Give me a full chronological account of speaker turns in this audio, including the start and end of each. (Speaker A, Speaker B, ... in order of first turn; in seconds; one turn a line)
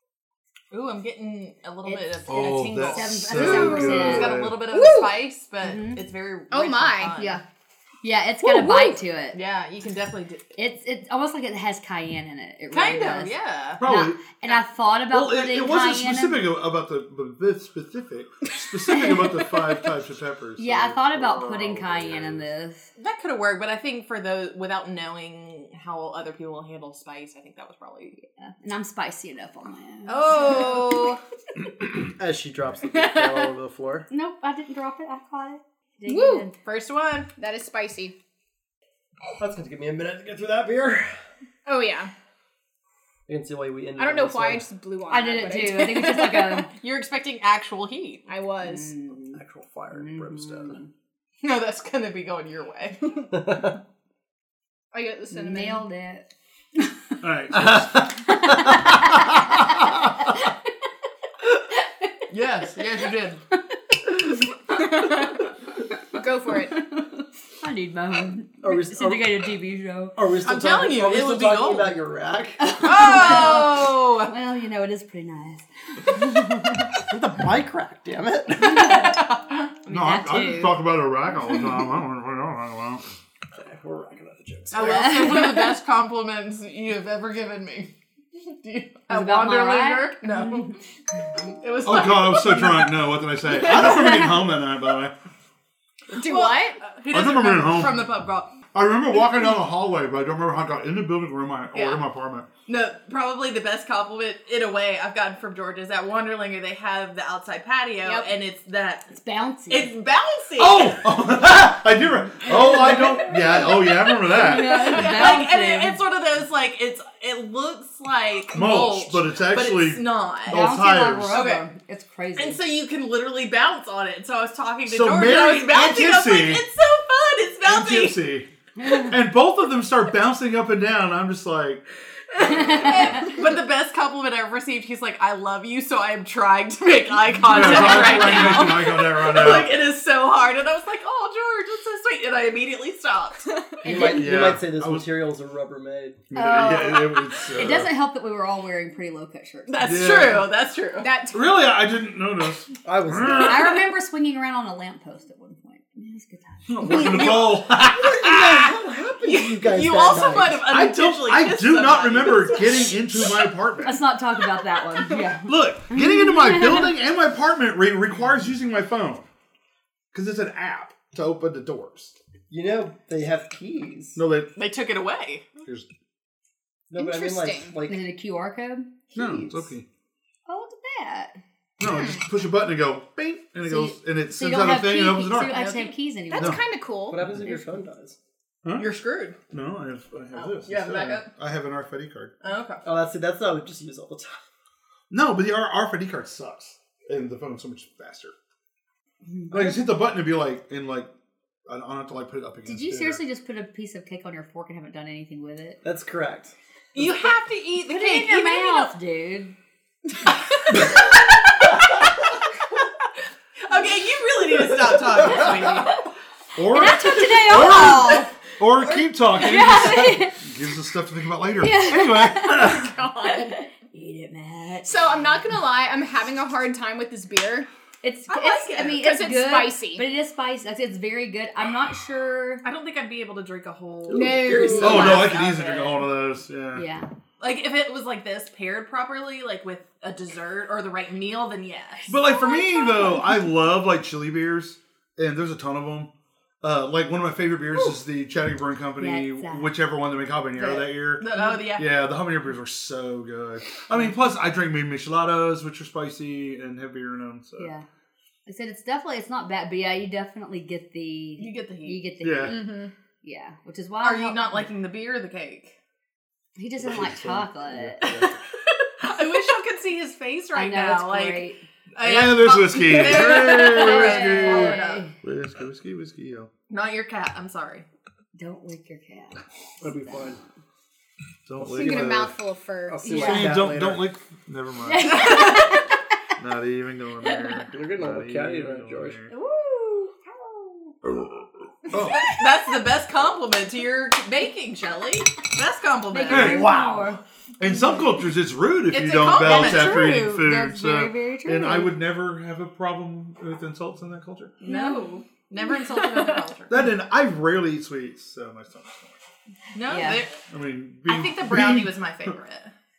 Speaker A: 0.7-7.4
Speaker B: 1.9-4.4
Speaker C: 2.3-4.6
Speaker D: 3.4-4.0
Speaker D: 4.7-5.2
Speaker B: 5.6-6.0
Speaker D: 6.5-7.2
Speaker B: 7.2-7.4
Speaker B: 8.0-9.4
Speaker D: 8.4-9.0
Speaker A: 9.3-10.5
Speaker B: 10.6-16.4
Speaker A: 12.7-13.8
Speaker C: 13.8-14.2
Speaker C: 15.1-22.5
Speaker B: 20.6-22.9
Speaker A: 23.0-28.2
Speaker B: 28.4-31.1
Speaker A: 30.1-31.2
Speaker E: 32.0-34.1
Speaker B: 34.1-36.5
Speaker D: 36.1-36.5
Speaker A: 36.6-37.3
Speaker D: 37.4-38.1
Speaker E: 39.4-41.2
Speaker D: 41.7-42.1
Speaker E: 43.3-44.7
Speaker D: 44.0-46.6
Speaker B: 45.1-46.7
Speaker A: 46.7-48.2
Speaker D: 48.3-48.9
Speaker B: 48.6-49.4
Speaker E: 49.3-50.8
Speaker B: 49.9-50.9
Speaker A: 51.4-53.3
Speaker E: 53.3-53.8
Speaker D: 54.9-55.9
Speaker B: 55.3-56.3
Speaker C: 57.2-58.1
Speaker E: 57.5-58.5
Speaker B: 58.3-60.0
Speaker C: 59.0-59.9
Speaker A: 62.3-63.4
Speaker D: 66.1-66.8
Speaker B: 66.2-70.2
Speaker E: 68.6-69.4
Speaker E: 70.2-72.7
Speaker A: 70.4-72.0
Speaker B: 72.6-76.9
Speaker A: 72.8-74.3
Speaker E: 77.0-79.2
Speaker B: 78.6-79.3
Speaker A: 79.0-79.2
Speaker B: 79.8-80.8
Speaker C: 79.9-83.0
Speaker E: 83.5-85.2
Speaker A: 84.7-87.9
Speaker B: 84.7-85.8
Speaker A: 88.5-90.8
Speaker B: 89.1-90.7
Speaker A: 91.6-93.0
Speaker C: 91.8-95.1
Speaker B: 94.0-94.3
Speaker A: 96.1-98.5
Speaker D: 96.1-96.8
Speaker C: 97.1-98.1
Speaker C: 98.7-102.5
Speaker A: 102.7-109.2
Speaker D: 108.0-108.3
Speaker B: 109.1-109.9
Speaker A: 109.7-111.0
Speaker C: 110.6-114.9
Speaker A: 112.4-120.7
Speaker B: 114.3-116.0
Speaker C: 118.5-121.5
Speaker B: 120.5-122.6
Speaker A: 121.3-121.7
Speaker A: 122.4-128.2
Speaker C: 124.9-126.6
Speaker C: 127.6-131.8
Speaker B: 128.8-129.2
Speaker C: 132.4-133.2
Speaker B: 132.5-132.9
Speaker A: 132.6-143.6
Speaker C: 137.4-139.8
Speaker B: 143.8-144.5
Speaker E: 143.8-146.2
Speaker C: 144.0-145.1
Speaker C: 146.3-147.9
Speaker B: 146.3-150.1
Speaker A: 149.7-151.1
Speaker C: 149.8-150.5
Speaker D: 151.0-151.5
Speaker C: 151.3-153.8
Speaker E: 152.8-153.8
Speaker B: 153.2-157.1
Speaker C: 156.7-158.6
Speaker A: 156.9-157.6
Speaker E: 157.0-160.7
Speaker A: 159.2-163.4
Speaker C: 160.7-164.0
Speaker B: 163.8-166.9
Speaker C: 165.5-169.3
Speaker C: 170.1-172.2
Speaker E: 172.5-174.2
Speaker C: 174.2-174.5
Speaker A: 174.6-175.5
Speaker E: 176.9-178.1
Speaker D: 176.9-177.8
Speaker B: 177.9-179.7
Speaker C: 179.1-179.9
Speaker B: 180.5-181.4
Speaker C: 181.8-185.6
Speaker D: 181.9-182.1
Speaker B: 183.6-186.6
Speaker D: 185.5-187.2
Speaker C: 186.4-186.6
Speaker E: 187.1-188.2
Speaker B: 187.4-187.8
Speaker C: 188.6-188.9
Speaker A: 188.8-189.4
Speaker C: 189.5-192.3
Speaker A: 190.3-191.3
Speaker A: 192.4-192.8
Speaker E: 192.8-194.4
Speaker C: 195.1-198.3
Speaker B: 199.3-199.8
Speaker C: 199.5-201.1
Speaker C: 201.7-203.2
Speaker B: 202.7-205.8
Speaker E: 205.8-206.5
Speaker A: 206.9-208.9
Speaker B: 207.9-209.6
Speaker A: 213.6-216.0
Speaker C: 216.6-222.9
Speaker B: 216.7-218.3
Speaker A: 217.6-218.0
Speaker B: 219.3-220.4
Speaker B: 221.5-225.0
Speaker D: 222.4-223.6
Speaker D: 224.8-227.7
Speaker B: 228.0-232.7
Speaker A: 228.3-229.1
Speaker D: 228.7-230.0
Speaker A: 232.6-236.1
Speaker E: 234.1-235.3
Speaker D: 234.1-235.2
Speaker C: 234.8-236.8
Speaker B: 236.7-237.1
Speaker A: 237.4-242.1
Speaker C: 242.1-246.1
Speaker B: 242.2-243.4
Speaker C: 246.6-257.7
Speaker B: 249.0-249.8
Speaker A: 250.6-251.9
Speaker B: 257.6-257.9
Speaker B: 258.5-264.6
Speaker A: 261.4-262.0
Speaker C: 262.2-262.7
Speaker D: 262.5-262.9
Speaker A: 264.0-265.8
Speaker B: 266.6-268.2
Speaker C: 266.8-268.4
Speaker A: 268.0-275.1
Speaker B: 270.5-271.6
Speaker C: 272.0-276.5
Speaker B: 273.5-275.1
Speaker D: 274.3-274.7
Speaker A: 276.7-277.9
Speaker B: 278.4-280.4
Speaker E: 279.8-280.4
Speaker C: 281.5-282.4
Speaker E: 281.6-282.3
Speaker D: 281.7-283.1
Speaker E: 282.9-284.1
Speaker B: 283.0-283.6
Speaker C: 283.1-285.2
Speaker B: 284.9-285.9
Speaker A: 285.3-285.6
Speaker C: 286.4-289.3
Speaker B: 287.2-287.6
Speaker E: 287.7-289.2
Speaker B: 289.3-290.9
Speaker C: 291.9-292.2
Speaker A: 291.9-296.7
Speaker B: 296.1-297.2
Speaker C: 296.3-304.6
Speaker A: 298.9-300.2
Speaker B: 299.4-302.0
Speaker A: 304.6-306.8
Speaker B: 304.6-305.2
Speaker C: 306.7-309.2
Speaker A: 309.7-310.4
Speaker B: 309.9-310.3
Speaker C: 310.5-312.0
Speaker A: 311.1-312.7